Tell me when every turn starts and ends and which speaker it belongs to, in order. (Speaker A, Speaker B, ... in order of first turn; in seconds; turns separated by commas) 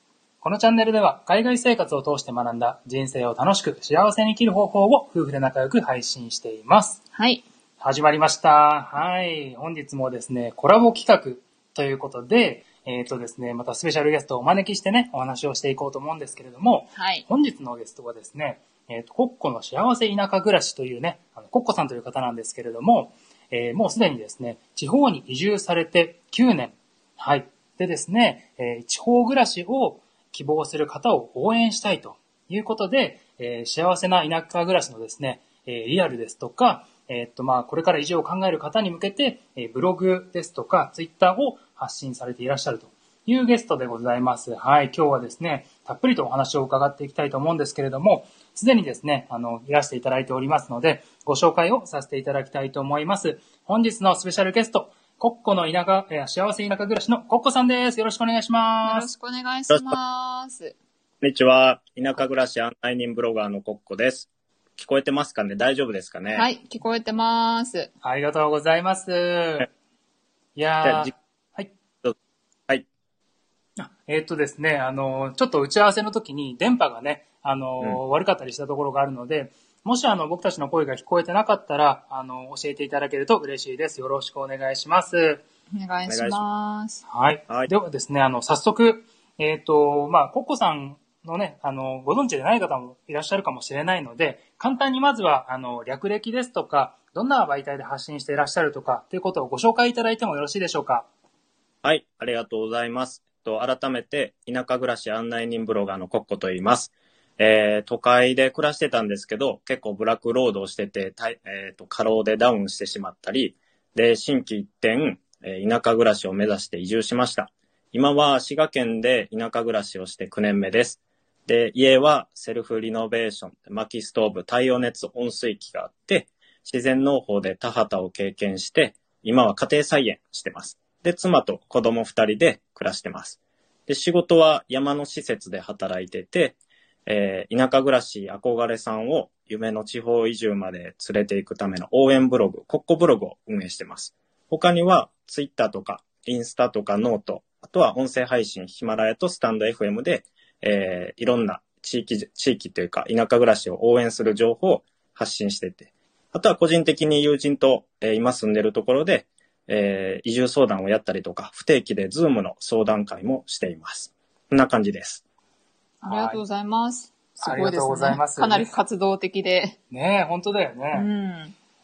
Speaker A: 0.4-7.0, Speaker B: 7.2-7.4, Speaker A: 7.8-59.1, Speaker B: 17.0-17.2, Speaker B: 58.8-60.8, Speaker C: 59.7-60.0, Speaker C: 61.2-66.5, Speaker B: 66.3-67.9, Speaker A: 68.0-69.7, Speaker A: 70.6-71.7, Speaker C: 70.8-71.1, Speaker A: 73.8-85.4, Speaker B: 85.7-87.0, Speaker C: 86.1-86.4, Speaker A: 87.1-101.1, Speaker C: 101.8-165.2, Speaker B: 166.0-169.8, Speaker A: 166.1-166.4, Speaker A: 167.4-168.7, Speaker A: 169.9-171.1, Speaker B: 170.9-171.6